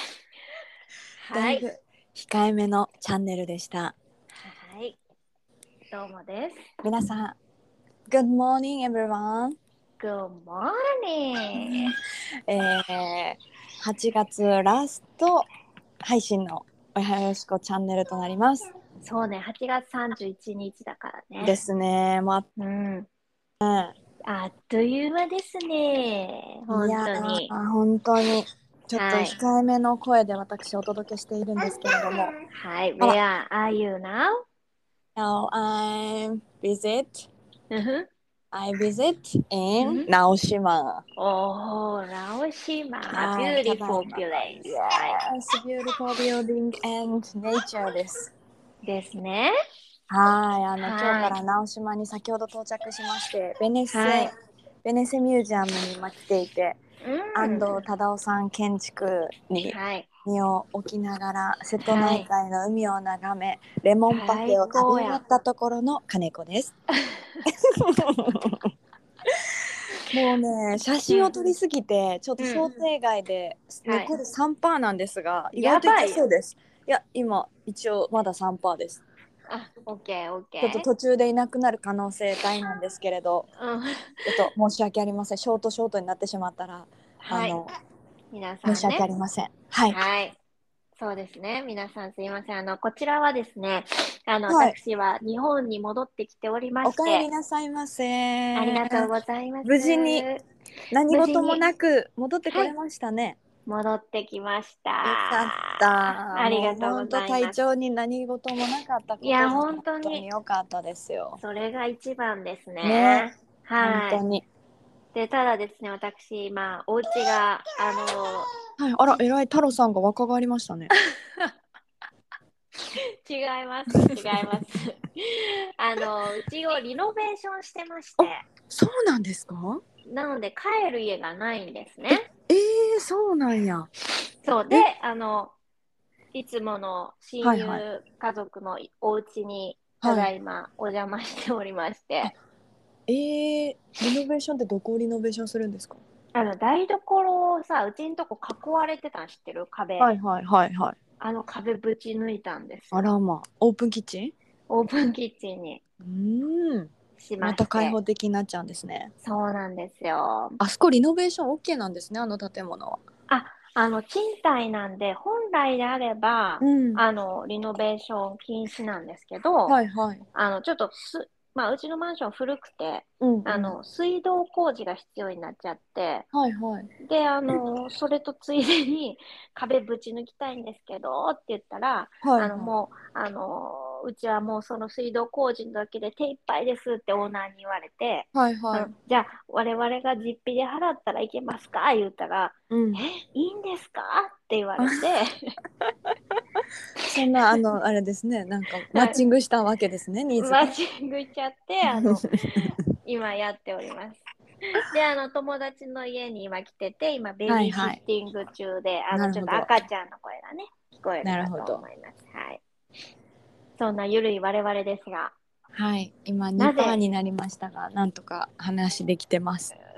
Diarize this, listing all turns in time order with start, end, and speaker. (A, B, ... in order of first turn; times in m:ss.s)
0:01.2-0:01.7 A
0:01.3-0:04.0 B
0:04.4-0:05.0 A
0:05.9-0:06.6 A
0:06.8-0:07.4 B
0:08.1-0:09.6 B
0:10.0-0:11.9 A
0:11.6-0:11.9 B
0:12.5-0:15.5 B
0:16.0-0:18.7 B
0:19.0-0:21.6 A
0:21.4-0:22.5 B
0:22.6-0:23.1 A
0:23.6-0:23.9 B
0:24.3-0:27.5 A
0:26.7-0:32.3 B
0:28.9-0:29.4 A
0:32.5-0:34.4 A
0:35.2-0:37.3 B
0:37.7-0:38.1 A
0:38.5-0:41.0 B
0:39.8-0:40.1 A
0:41.2-0:45.2 A
0:43.1-0:48.3 B
0:48.8-0:49.5 A
0:50.1-0:54.3 B
0:50.8-0:51.4 A
0:53.9-0:54.3 A
0:54.8-0:56.8 B
0:57.0-0:57.8 A
0:57.4-1:06.7 B
0:59.7-1:00.1 A
1:01.8-1:02.3 A
1:04.1-1:05.2 A
1:07.0-1:07.4 A
1:07.5-1:08.7 B
1:10.1-1:19.0 B
1:11.1-1:11.4 A
1:12.4-1:12.7 A
1:13.8-1:14.1 A
1:15.5-1:16.3 A
1:19.5-1:20.9 A
1:20.6-1:23.5 B
1:23.6-1:24.5 A
1:24.3-1:27.7 B
1:27.2-1:27.6 A
1:28.3-1:29.0 A
1:28.6-1:30.0 B
1:29.9-1:30.4 A
1:31.0-1:37.3 A
1:34.5-1:34.8 B
1:36.8-1:39.1 B
1:38.6-1:40.4 A
1:39.6-1:40.2 B
1:40.9-1:43.4 B
1:41.1-1:41.6 A
1:43.7-1:45.8 A
1:45.0-1:51.4 B
1:46.3-1:47.6 A
1:49.2-1:50.2 A
1:51.4-1:54.2 A
1:52.8-1:54.4 B
1:55.1-1:58.5 A
1:58.8-2:00.9 B
2:01.1-2:01.6 A
2:02.8-2:08.4 A
2:08.2-2:09.8 B
2:10.1-2:12.3 A
2:12.5-2:13.9 B
2:14.4-2:15.6 A
2:16.3-2:22.3 A
2:17.4-2:17.8 B
2:20.0-2:20.3 B
2:23.1-2:26.0 B
2:26.3-2:30.1 A
2:30.0-2:31.0 B
2:31.2-2:33.1 A
2:32.9-2:34.3 B
2:34.7-2:35.8 A
2:36.0-2:39.1 B
2:37.2-2:38.0 A
2:39.2-2:40.6 A
2:40.6-2:43.0 B
2:43.3-2:49.8 A
2:46.6-2:47.0 B
2:49.7-2:50.2 B
2:50.3-2:56.3 A
2:53.2-2:53.8 B
2:56.3-2:56.9 B
2:57.0-3:15.6 A
3:02.2-3:02.7 B
3:08.3-3:08.9 B
3:12.7-3:13.0 B
3:17.1-3:20.7 B
3:18.9-3:19.2 A
3:20.4-3:24.2 A
3:24.7-3:32.6 A
3:27.5-3:28.0 B
3:29.1-3:29.8 B
3:31.2-3:31.8 B
3:33.8-3:35.3 A
3:35.7-3:39.7 B
3:36.6-3:37.0 A